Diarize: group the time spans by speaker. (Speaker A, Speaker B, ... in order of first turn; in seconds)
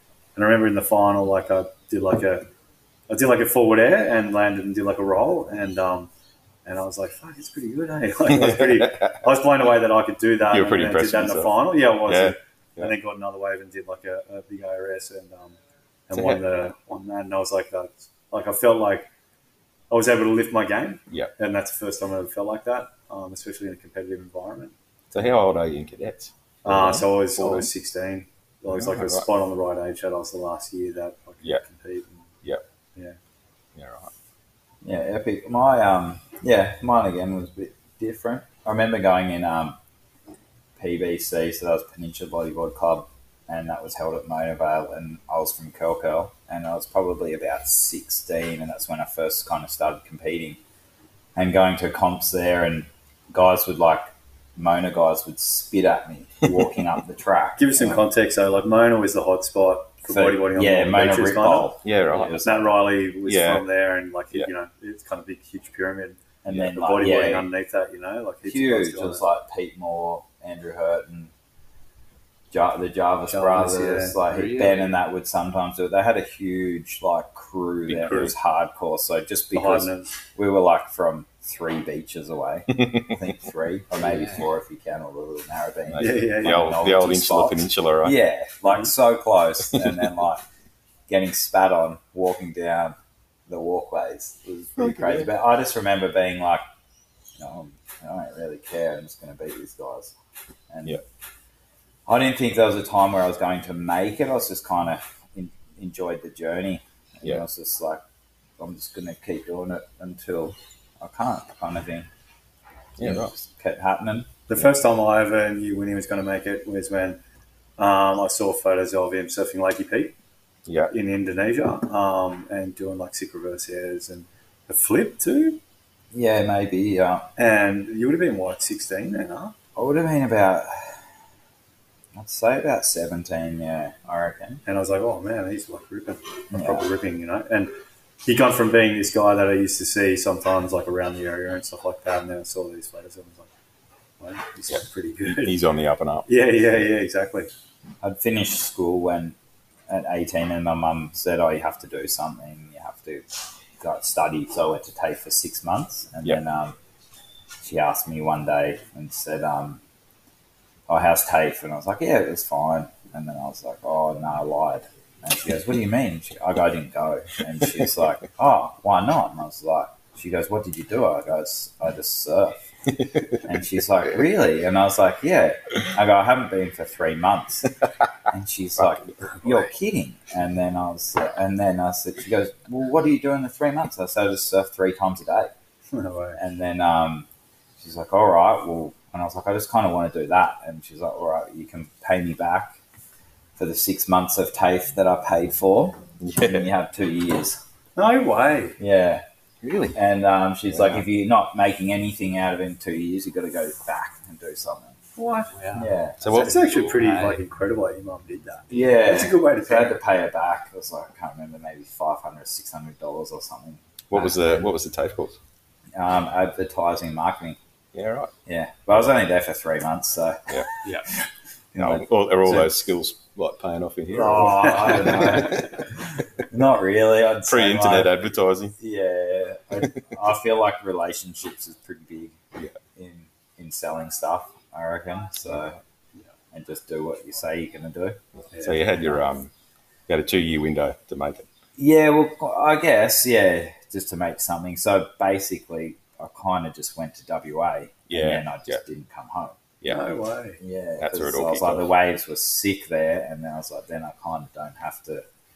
Speaker A: 0.3-2.5, 3.1-6.1, 6.6-15.6, 16.1-19.1, 19.9-24.7, 26.6-32.2, 57.6-61.7, 62.4-69.2, 73.3-74.2, 79.5-80.1, 86.0-86.8, 114.5-117.2, 117.8-120.1, 120.9-125.6, 127.4-129.5, 134.6-137.7, 138.2-143.5, 144.2-145.6, 146.3-147.5, 185.9-186.4, 197.9-198.8, 205.2-205.5, 206.3-210.0, 224.4-225.5, 238.5-239.2, 249.9-250.6
Speaker B: 8.3-9.2, 10.4-12.9, 16.1-16.5, 25.1-27.7, 28.7-29.3, 33.7-34.1, 61.8-62.5, 63.2-63.6, 77.9-78.3, 82.7-83.1, 85.9-88.2, 94.8-95.3, 113.0-113.3, 120.7-120.9, 144.7-146.3, 196.2-196.7, 199.6-200.0, 200.7-201.0, 206.2-206.9, 214.1-215.4, 217.9-218.3, 221.8-225.9, 227.4-228.8, 238.4-239.5, 240.1-241.5, 248.1-248.8, 251.0-251.9
Speaker C: 34.8-39.8, 40.8-50.6, 51.4-58.0, 60.1-62.8, 66.4-67.5, 68.4-71.3, 72.5-90.4, 91.1-93.0, 93.5-96.6, 97.4-100.1, 100.7-101.0, 102.1-108.0, 108.6-112.1, 113.0-114.3, 126.1-127.3, 129.8-131.0, 132.1-134.6, 136.5-136.9, 148.0-149.3, 149.9-153.2, 153.8-156.8, 157.6-159.8, 160.9-172.7, 173.4-177.7, 178.3-185.5, 186.4-187.3, 187.8-192.8, 193.6-197.6, 198.8-199.2, 199.9-205.0, 205.7-206.2, 208.7-214.6, 215.9-217.6, 218.4-221.2, 221.7-222.7, 224.1-228.1, 228.8-232.4, 232.9-235.8, 236.5-238.2, 241.8-249.6, 250.6-255.2
Speaker D: 74.2-74.9, 84.0-84.5, 205.5-205.9, 206.6-207.4